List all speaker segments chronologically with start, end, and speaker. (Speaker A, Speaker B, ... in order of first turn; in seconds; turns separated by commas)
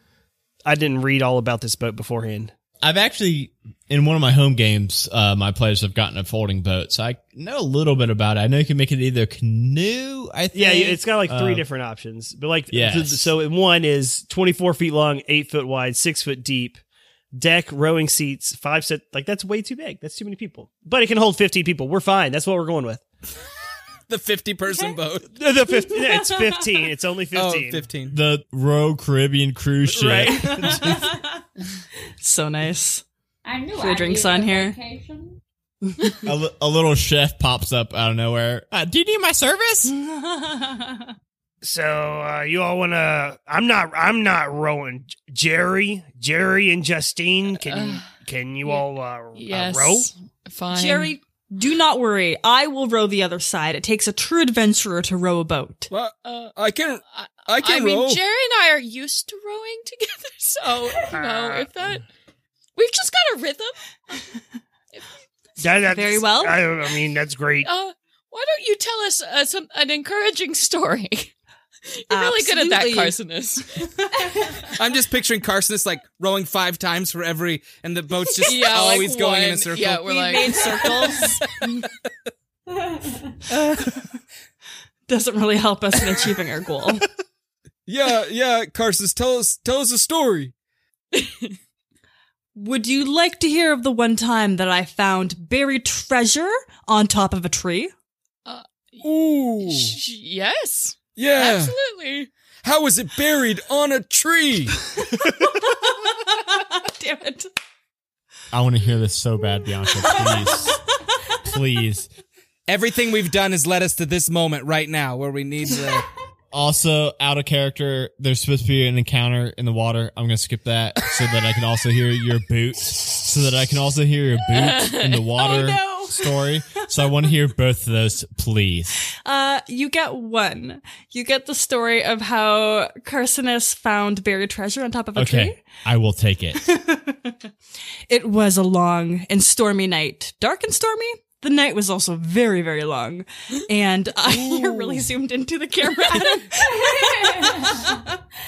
Speaker A: 0.7-2.5, Speaker B: 2.8-11.6, Speaker A: 10.5-16.8, Speaker B: 12.7-13.3, Speaker A: 17.3-23.1, Speaker C: 24.1-25.3, Speaker A: 25.3-27.8, Speaker D: 25.7-26.7, Speaker C: 27.3-28.1, Speaker B: 28.1-31.0, Speaker A: 29.9-31.1, Speaker D: 30.8-31.2, Speaker D: 32.2-33.0, Speaker E: 33.5-35.4, Speaker D: 33.7-34.8, Speaker B: 36.2-39.9, Speaker D: 39.9-41.1, Speaker A: 41.6-50.1, Speaker F: 47.6-48.1, Speaker F: 48.6-51.1, Speaker D: 50.7-55.9, Speaker G: 55.9-58.2, Speaker F: 56.2-56.5, Speaker F: 57.1-62.0, Speaker A: 61.1-61.7, Speaker F: 62.8-64.2, Speaker A: 65.6-67.7, Speaker D: 65.9-66.6, Speaker F: 67.7-71.3, Speaker F: 71.9-73.9, Speaker D: 72.1-73.2, Speaker D: 73.8-74.2, Speaker C: 74.8-80.0, Speaker D: 78.4-79.3, Speaker F: 78.4-81.5, Speaker D: 80.0-81.9, Speaker E: 82.9-83.2, Speaker D: 83.5-84.0, Speaker D: 85.1-87.1, Speaker G: 87.9-90.5, Speaker F: 91.1-91.6, Speaker D: 92.5-97.9, Speaker F: 98.5-99.1, Speaker G: 99.0-100.0, Speaker F: 99.6-102.3, Speaker G: 101.2-101.8, Speaker G: 102.6-104.8, Speaker D: 105.2-107.5, Speaker B: 108.5-110.8, Speaker D: 110.0-110.7, Speaker B: 111.4-112.1, Speaker C: 112.7-116.1, Speaker B: 116.5-129.0, Speaker F: 124.8-125.0, Speaker D: 125.4-126.3, Speaker D: 129.2-135.6, Speaker B: 135.2-136.6, Speaker D: 136.6-137.5, Speaker D: 138.1-148.0, Speaker G: 144.3-145.1, Speaker E: 146.6-148.0